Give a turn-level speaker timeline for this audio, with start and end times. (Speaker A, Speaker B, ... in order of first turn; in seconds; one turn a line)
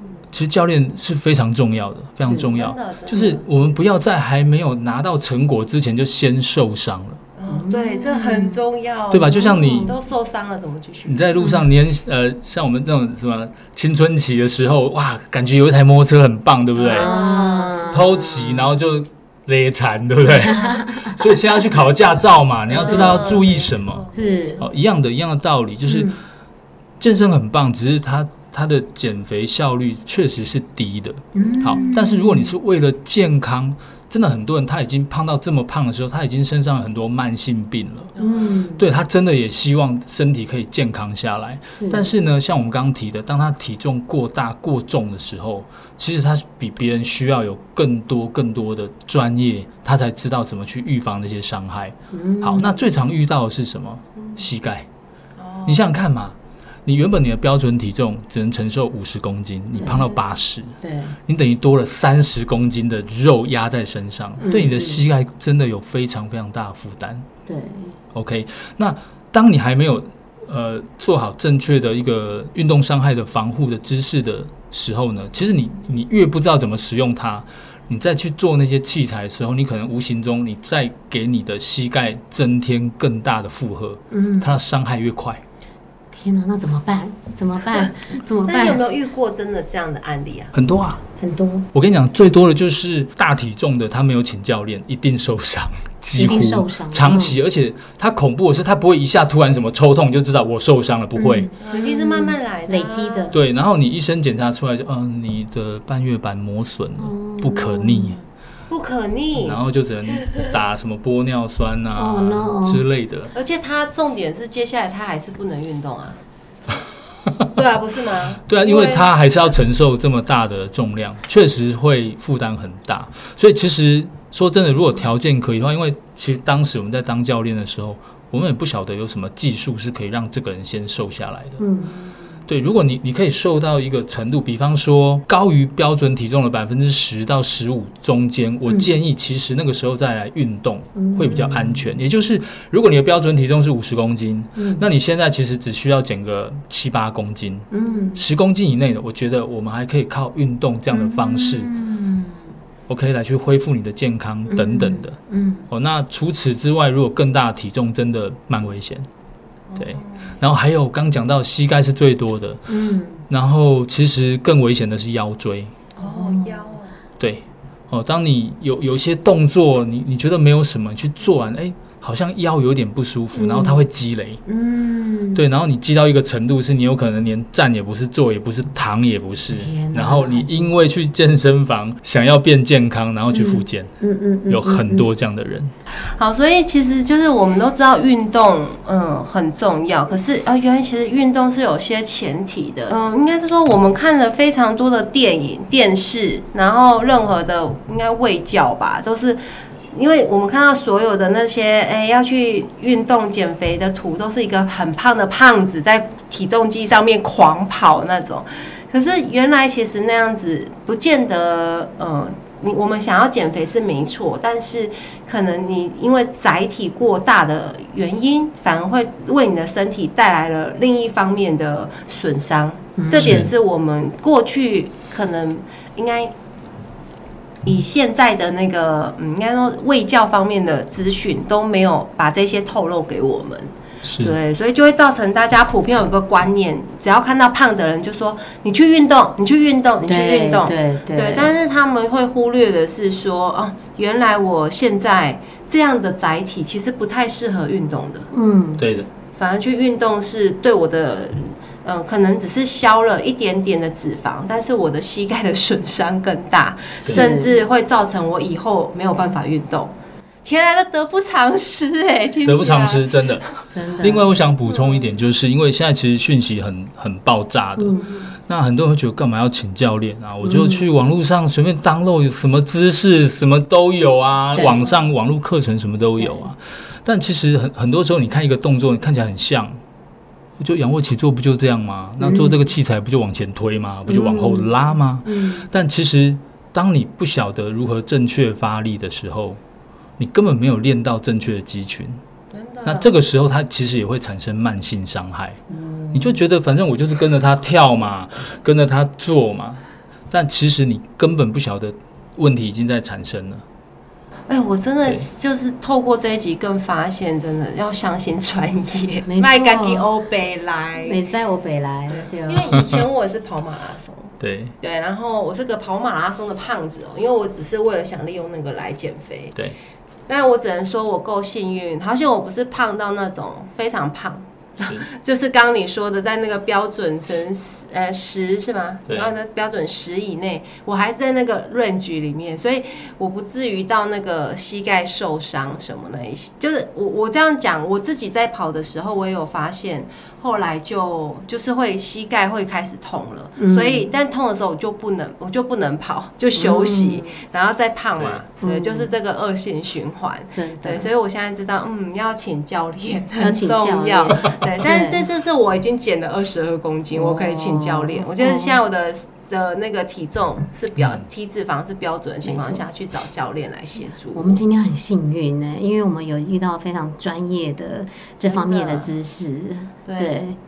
Speaker A: 0.3-7.2
Speaker B: 2.2-2.5
Speaker C: 2.3-3.5
Speaker C: 7.4-11.3
Speaker B: 7.5-8.6
Speaker A: 9.1-9.9
Speaker B: 9.3-9.9
Speaker A: 11.1-17.1
Speaker B: 11.4-11.7
Speaker B: 16.8-18.8
Speaker C: 16.9-18.0
Speaker A: 17.9-24.1
Speaker B: 20.3-21.3
Speaker C: 22.7-24.8
Speaker B: 22.8-23.3
Speaker B: 24.1-24.6
Speaker A: 24.6-26.1
Speaker B: 25.9-26.2
Speaker A: 27.0-38.1
Speaker B: 31.3-32.6
Speaker C: 31.4-31.9
Speaker C: 38.1-38.5
Speaker B: 38.2-38.9
Speaker A: 38.8-54.9
Speaker B: 41.8-42.1
Speaker B: 52.1-52.9
Speaker C: 55.4-55.8
Speaker A: 55.7-67.2
Speaker B: 59.8-60.1
Speaker B: 60.8-61.2
Speaker B: 64.4-65.0
Speaker B: 67.5-68.0
Speaker A: 68.1-85.4
Speaker B: 84.1-84.6
Speaker B: 86.1-88.8
Speaker C: 88.5-90.5
Speaker A: 90.5-91.0
Speaker B: 91.2-91.7
Speaker A: 91.7-101.5
Speaker B: 96.2-97.4
Speaker B: 101.2-103.4
Speaker C: 101.6-103.4
Speaker A: 103.3-108.2
Speaker B: 107.0-108.2
Speaker C: 108.7-110.3
Speaker A: 109.4-113.3
Speaker B: 112.0-112.8
Speaker C: 113.3-116.2
Speaker C: 117.5-119.1
Speaker A: 118.5-131.6
Speaker B: 131.6-132.2
Speaker A: 132.5-151.7
Speaker B: 138.7-138.9
Speaker B: 140.9-142.0
Speaker B: 144.6-144.9
Speaker B: 147.7-148.2
Speaker B: 150.9-152.5
Speaker A: 152.9-155.2
Speaker B: 154.5-155.7
Speaker A: 155.7-159.1
Speaker C: 159.7-160.3
Speaker A: 159.8-162.7
Speaker B: 162.7-163.2
Speaker A: 163.3-165.8
Speaker C: 166.0-166.9
Speaker B: 166.0-166.8
Speaker A: 167.2-174.4
Speaker B: 173.3-173.9
Speaker B: 174.5-175.4
Speaker A: 175.3-183.9
Speaker B: 179.5-180.8
Speaker B: 183.3-185.1
Speaker A: 184.5-185.7
Speaker C: 186.2-199.4
Speaker C: 199.9-226.3
Speaker B: 223.0-223.5
Speaker A: 223.2-223.5
Speaker C: 227.6-233.7
Speaker A: 234.0-234.3
Speaker C: 234.2-248.3
Speaker B: 240.0-241.6
Speaker B: 248.3-248.8
Speaker A: 248.8-249.1
Speaker C: 249.4-259.9
Speaker B: 257.0-257.6
Speaker C: 260.4-263.5
Speaker A: 262.4-263.4
Speaker B: 263.7-264.3
Speaker A: 264.0-279.8
Speaker C: 264.7-265.2
Speaker B: 267.8-268.1
Speaker B: 270.4-271.0
Speaker B: 274.6-274.9
Speaker B: 276.2-276.5
Speaker A: 280.6-289.6
Speaker B: 282.2-282.7
Speaker B: 284.1-285.7
Speaker A: 290.2-292.2
Speaker C: 292.5-293.2
Speaker A: 292.8-295.6
Speaker B: 295.7-296.4
Speaker A: 296.1-303.6
Speaker C: 304.5-311.2
Speaker B: 309.3-310.1
Speaker B: 311.0-312.9
Speaker C: 312.1-319.6
Speaker A: 314.4-314.7
Speaker C: 320.3-364.6
Speaker A: 324.8-325.1
Speaker B: 343.6-344.1
Speaker B: 346.6-347.4
Speaker A: 348.2-348.4
Speaker B: 348.6-349.1
Speaker B: 350.5-351.1
Speaker B: 353.4-355.3
Speaker B: 357.1-358.8
Speaker B: 362.4-362.8
Speaker B: 364.3-370.6
Speaker C: 368.4-369.1
Speaker C: 370.1-370.3